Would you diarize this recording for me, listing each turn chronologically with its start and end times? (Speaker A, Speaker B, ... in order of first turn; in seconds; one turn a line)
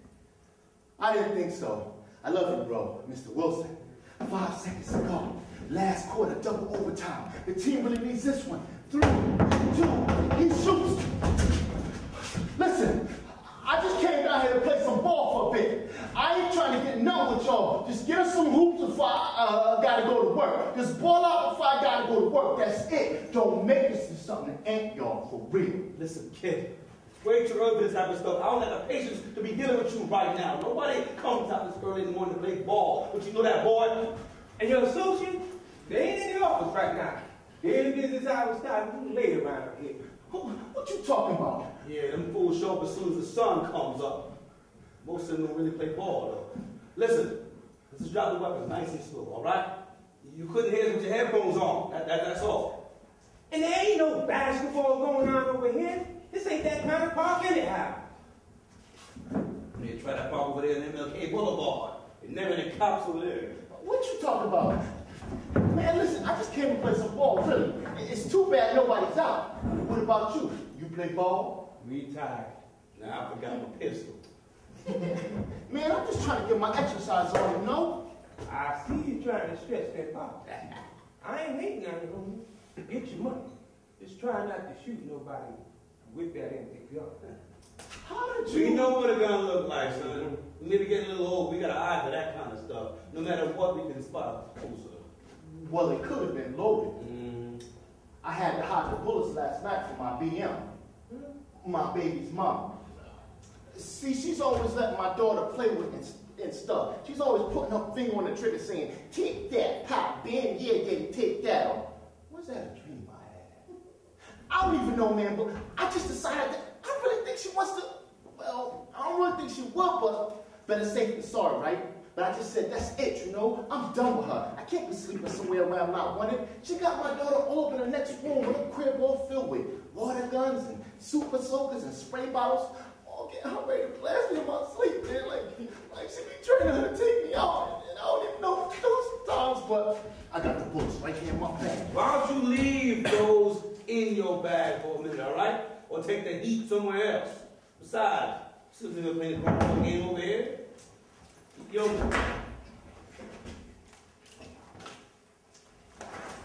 Speaker A: 1.0-11.2
Speaker A: 12.5-25.9
Speaker B: 25.9-26.7
Speaker B: 27.2-34.1
Speaker C: 34.6-40.0
Speaker A: 40.3-41.7
Speaker B: 41.8-44.3
Speaker B: 45.0-49.7
Speaker B: 50.2-52.8
Speaker C: 53.5-58.0
Speaker B: 59.8-63.6
Speaker A: 63.6-64.9
Speaker A: 65.6-71.6
Speaker C: 71.8-72.6
Speaker B: 73.0-74.2
Speaker A: 74.9-78.0
Speaker C: 78.5-80.4
Speaker B: 80.5-80.8
Speaker C: 81.2-87.3
Speaker A: 88.0-89.0
Speaker B: 88.5-95.1
Speaker C: 89.8-90.4
Speaker A: 95.4-97.0
Speaker B: 97.0-97.6
Speaker A: 98.2-100.7
Speaker A: 101.6-102.9
Speaker A: 103.7-113.6
Speaker A: 114.5-141.9
Speaker B: 141.9-150.6
Speaker B: 151.6-152.1